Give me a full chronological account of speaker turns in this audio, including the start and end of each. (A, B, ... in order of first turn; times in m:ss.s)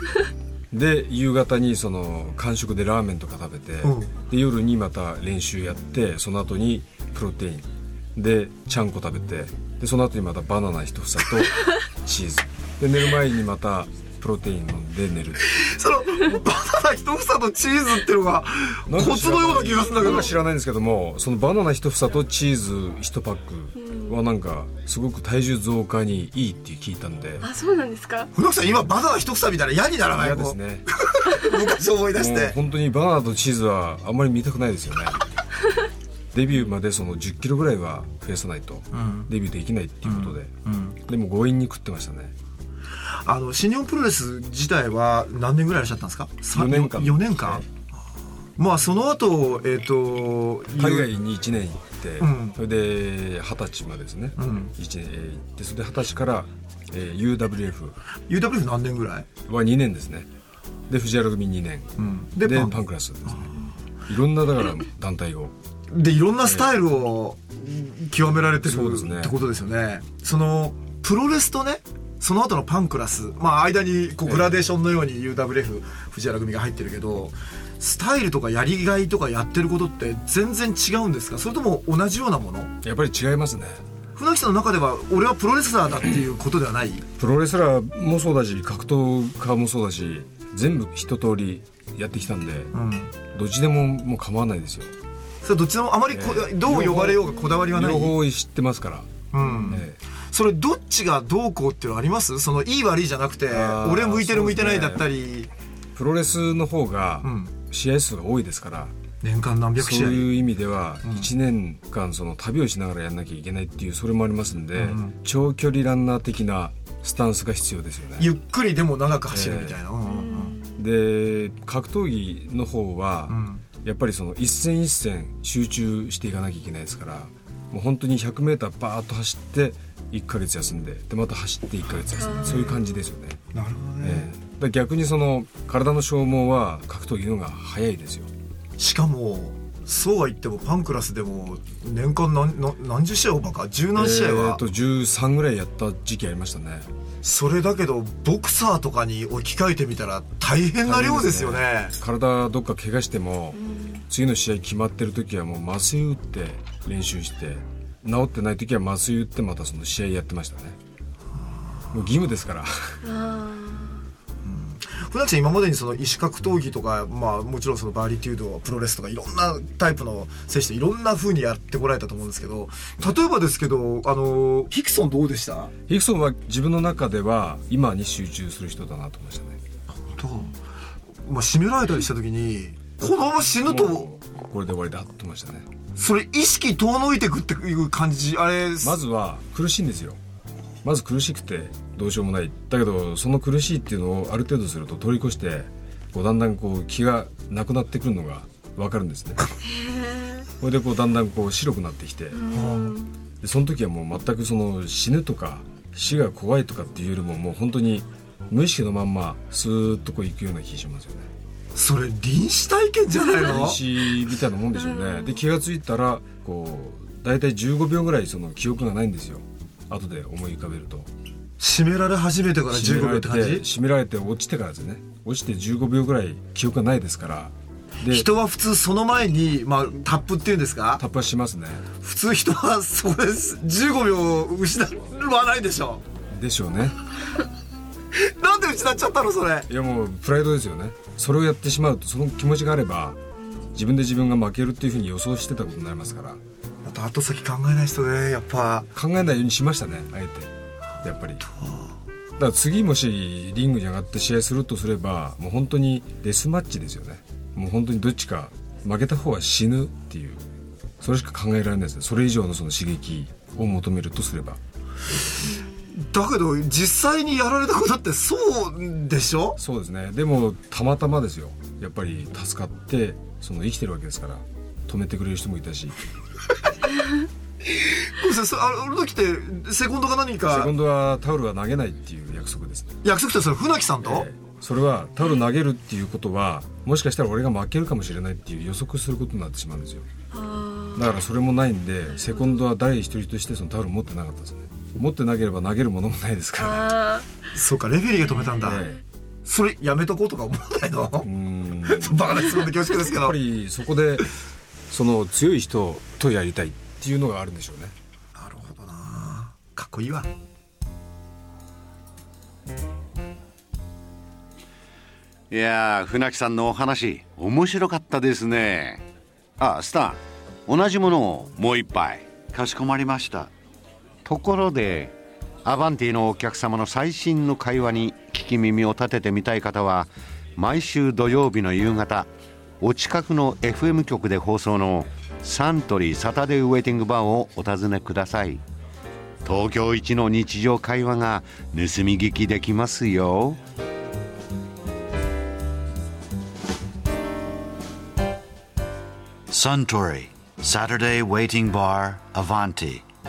0:00.7-0:15.4 A
0:03.8-0:04.1 B
0:15.5-0:20.3 B
0:18.9-0:27.5 A
0:23.9-0:24.1 C
0:27.4-0:28.3 C
0:28.3-0:32.6 B
0:30.1-0:30.8 A
0:32.1-0:35.2 A
0:36.3-0:42.3 A
0:38.9-0:39.3 B
0:40.0-0:41.0 B
0:43.2-0:47.6 B
0:46.5-0:47.6 A
0:48.6-0:51.1 B
0:50.8-0:58.0 A
0:52.2-0:52.6 B
0:54.4-0:54.7 B
0:58.3-0:59.3 B
0:59.4-1:00.3 A
1:00.9-1:03.5 A
1:02.0-1:03.7 B
1:04.1-1:05.5 A
1:05.9-1:22.7 B
1:06.4-1:06.7 A
1:08.6-1:09.4 A
1:14.2-1:14.6 A
1:22.8-1:23.8 A
1:24.2-1:27.0 B
1:27.2-1:32.7 A
1:32.7-1:33.1 B
1:33.3-1:34.9 A
1:35.4-1:38.2 B
1:36.1-1:39.1 A
1:39.3-1:45.5 B
1:39.7-1:40.0 A
1:43.5-1:45.0 A
1:45.9-1:48.9 A
1:47.2-1:47.5 B
1:49.2-1:50.3 B
1:49.8-1:58.3 A
1:54.7-1:55.1 B
1:58.2-2:00.6 B
1:59.3-1:59.8 A
2:00.2-2:00.6 C
2:00.8-2:13.4 A
2:03.3-2:03.6 B
2:12.3-2:12.6 C
2:13.5-2:14.3 B
2:14.0-2:18.3 A
2:18.8-2:24.6 B
2:23.9-2:26.9 A
2:27.2-2:31.9 B
2:30.8-2:40.8 A
2:33.6-2:34.0 C
2:41.9-2:43.0 A
2:43.0-2:44.1 C
2:44.4-2:55.7 B
2:55.9-2:59.6 A
2:59.9-3:00.6 B
3:01.2-3:04.0 B
3:03.6-3:05.7 A
3:06.0-3:09.0 B
3:08.8-3:10.2 A
3:10.8-3:19.4 A
3:19.7-3:20.4 C
3:20.6-3:22.4 A
3:22.4-3:23.1 C
3:22.5-3:23.0 B
3:23.4-3:31.3 A
3:31.7-3:33.8 B
3:33.3-3:41.1 A
3:41.6-3:43.6 B
3:42.7-3:48.3 A
3:48.0-3:51.0 B
3:51.0-3:51.9 A
3:52.0-3:56.0 B
3:56.3-3:57.0 A
3:58.1-3:59.7 B
3:59.7-4:03.2 A
4:03.7-4:06.4 A
4:06.8-4:08.9 B
4:08.9-4:10.5 A
4:11.0-4:11.4 A
4:11.5-4:11.9 B
4:12.4-4:20.4 A
4:21.0-4:24.6 A
4:25.8-4:29.6 B
4:29.6-4:36.0 A
4:38.1-4:40.7 B
4:40.5-4:43.0 A
4:43.0-4:44.3 B
4:44.0-4:50.0 A
4:50.3-4:51.0 C
4:50.9-4:57.1 A
4:56.6-4:57.2 C
4:57.5-4:58.8 B
4:58.4-4:59.0 A
4:59.4-5:01.3 B
5:01.2-5:04.3 A
5:01.8-5:03.4 B
5:04.9-5:07.9 A
5:08.3-5:10.3 B
5:15.5-5:19.0 D
5:19.6-5:22.3 D
5:22.5-5:23.5 E
5:24.2-5:32.3 D
5:32.8-5:38.6 D
5:39.4-5:43.6 D
5:49.5-5:53.0 E